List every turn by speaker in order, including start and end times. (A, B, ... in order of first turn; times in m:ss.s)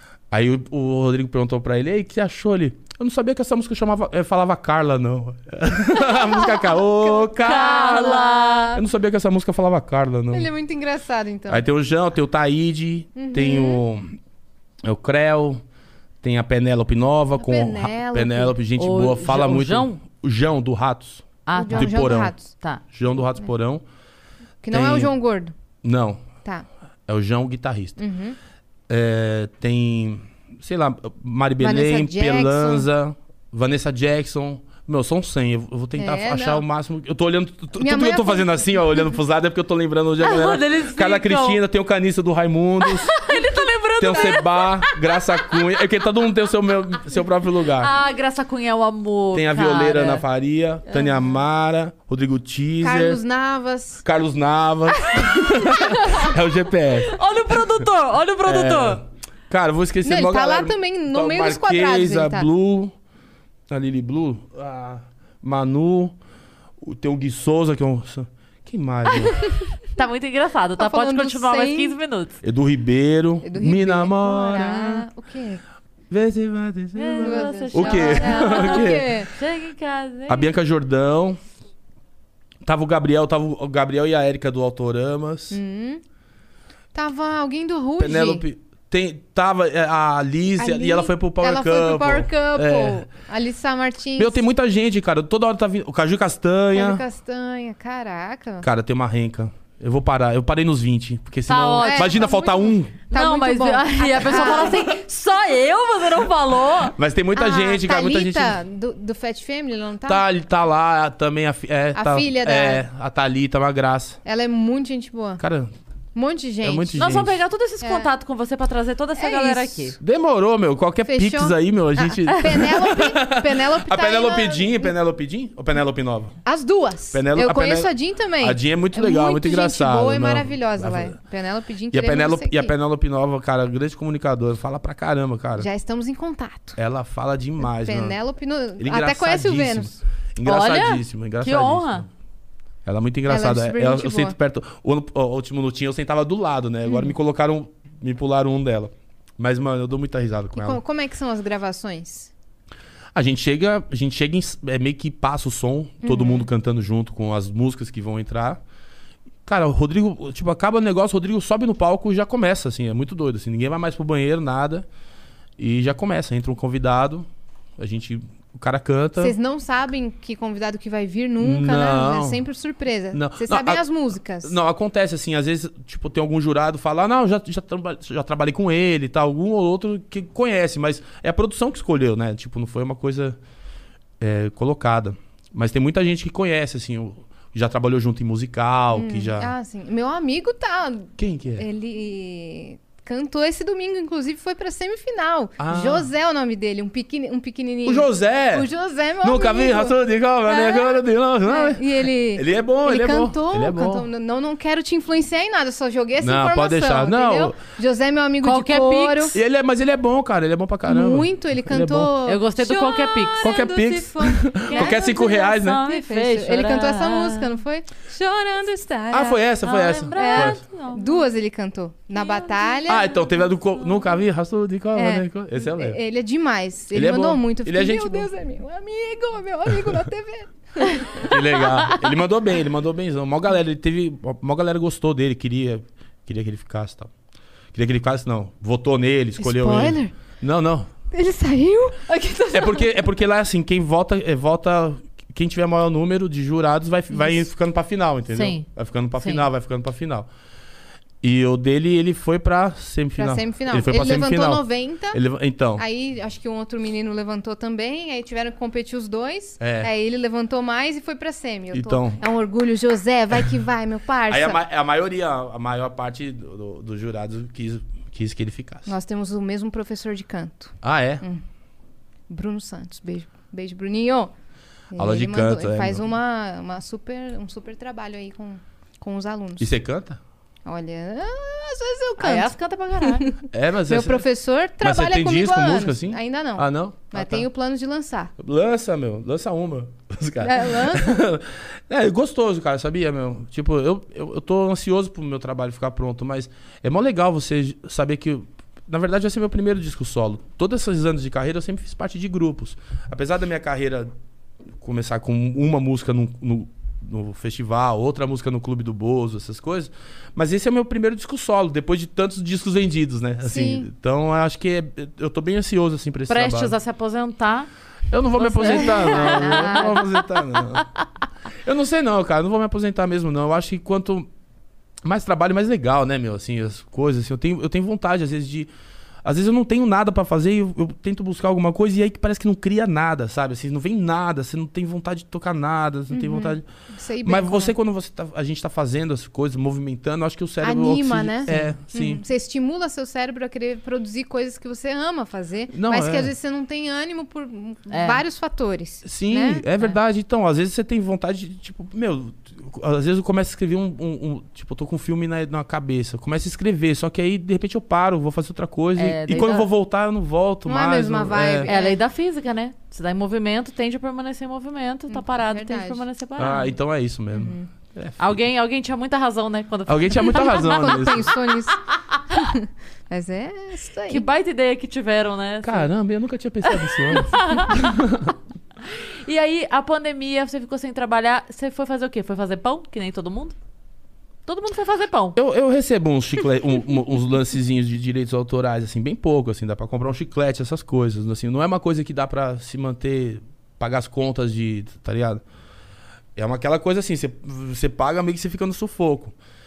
0:00.3-0:10.5 A
0:06.1-0:08.7 B
0:07.4-0:08.8 C
0:10.3-0:11.7 B
0:11.5-0:14.2 A
0:13.2-0:13.8 B
0:14.8-0:15.6 A
0:16.2-0:22.3 A
0:17.4-0:18.6 B
0:18.8-0:20.0 C
0:21.5-0:22.8 C
0:21.6-0:22.4 B
0:22.9-0:23.8 A
0:24.6-0:25.5 B
0:24.7-0:25.2 A
0:25.8-0:26.3 A
0:27.1-0:28.0 A
0:28.0-0:28.4 B
0:28.9-0:43.2 A
0:31.6-0:32.9 B
0:36.0-0:36.6 B
0:37.8-0:39.0 B
0:40.2-0:41.6 C
0:42.8-0:45.6 C
0:44.0-0:47.9 A
0:44.1-0:44.4 B
0:47.8-0:50.2 C
0:49.3-0:53.2 A
0:50.9-0:51.3 B
0:52.8-0:54.0 B
0:54.0-0:57.2 A
0:55.2-0:56.3 B
0:57.0-0:59.0 C
0:58.4-1:02.9 A
1:00.0-1:02.5 B
1:03.7-1:06.2 A
1:06.8-1:09.5 A
1:09.2-1:09.8 B
1:10.0-1:12.4 C
1:10.8-1:12.0 B
1:12.4-1:15.1 A
1:13.4-1:15.6 B
1:16.1-1:19.2 A
1:17.0-1:20.5 C
1:17.2-1:19.3 B
1:20.3-1:21.4 A
1:22.6-1:25.6 A
1:25.5-1:26.0 B
1:26.9-1:28.4 B
1:28.0-1:33.1 A
1:30.6-1:34.4 B
1:34.2-1:37.0 A
1:36.7-1:38.7 B
1:38.6-1:43.0 A
1:41.5-1:42.2 C
1:41.8-1:44.8 B
1:43.1-1:47.0 C
1:44.5-1:44.7 A
1:46.9-1:48.6 A
1:47.4-1:50.2 B
1:50.1-1:54.2 A
1:52.0-1:52.8 B
1:54.2-1:55.4 B
1:55.4-1:55.7 A
1:56.2-1:57.1 B
1:56.6-1:57.4 A
1:57.0-2:00.0 C
1:57.8-1:58.1 B
1:59.2-1:59.9 B
2:00.0-2:06.4 A
2:01.0-2:04.9 B
2:06.4-2:12.7 B
2:07.1-2:11.2 A
2:11.9-2:15.7 A
2:15.6-2:16.8 B
2:16.8-2:18.2 A
2:17.6-2:20.0 B
2:18.8-2:22.1 A
2:20.4-2:22.1 C
2:22.8-2:30.8 A
2:23.3-2:24.3 B
2:26.9-2:27.1 B
2:30.6-2:32.3 B
2:33.2-2:38.6 A
2:36.0-2:36.5 B
2:39.5-2:44.9 A
2:45.6-2:49.4 A
2:49.2-2:54.6 B
2:51.4-2:52.4 A
2:53.1-2:53.8 A
2:54.4-3:03.4 A
3:04.2-3:09.5 A
3:08.9-3:20.0 B
3:11.2-3:11.7 A
3:15.6-3:16.1 A
3:17.8-3:18.7 A
3:19.2-3:24.1 A
3:20.5-3:29.4 B
3:26.2-3:27.6 A
3:28.4-3:29.4 C
3:29.3-3:32.1 A
3:30.9-3:39.4 B
3:32.2-3:33.7 C
3:33.4-3:35.8 A
3:34.7-3:37.6 C
3:39.1-3:40.6 A
3:39.6-3:41.3 C
3:40.2-3:43.3 B
3:42.2-3:43.3 C
3:42.9-3:46.0 A
3:45.0-3:51.9 B
3:46.9-3:48.3 A
3:51.2-3:57.1 A
3:57.7-4:00.9 A
3:59.4-4:00.2 B
4:01.1-4:03.0 B
4:02.5-4:10.3 A
4:08.3-4:09.5 C
4:11.2-4:15.8 A
4:13.2-4:15.2 B
4:15.8-4:24.6 B
4:19.6-4:19.9 A
4:21.7-4:22.2 A
4:24.3-4:29.0 A
4:28.9-4:31.4 B
4:30.8-4:31.2 A
4:32.3-4:34.3 B
4:34.9-4:39.7 B
4:35.0-4:36.1 A
4:39.6-4:40.2 A
4:40.6-4:48.3 B
4:42.2-4:43.3 C
4:43.5-4:44.3 A
4:44.8-4:47.5 A
4:48.4-5:04.1 A
4:50.4-4:51.2 B
5:04.8-5:16.8 A
5:13.4-5:13.9 B
5:16.3-5:17.7 C
5:18.1-5:20.9 A
5:18.4-5:20.8 C
5:18.7-5:19.9 B
5:21.6-5:24.3 A
5:25.0-5:28.7 A
5:29.2-5:36.7 A
5:36.1-5:37.7 B
5:37.2-5:42.2 A
5:40.6-5:49.6 B
5:45.7-5:46.3 A
5:47.9-5:48.2 C
5:49.0-6:01.7 A
5:59.0-5:59.7 C
6:00.7-6:02.0 B
6:01.7-6:06.8 C
6:05.1-6:06.0 B
6:06.4-6:08.4 A
6:07.3-6:07.7 B
6:08.2-6:11.2 C
6:09.9-6:11.3 A
6:10.3-6:14.2 B
6:12.1-6:12.4 C
6:14.1-6:15.9 C
6:15.6-6:18.4 A
6:16.7-6:18.0 C
6:18.9-6:23.6 C
6:24.5-6:25.4 C
6:25.4-6:35.4 A
6:36.4-6:39.4 A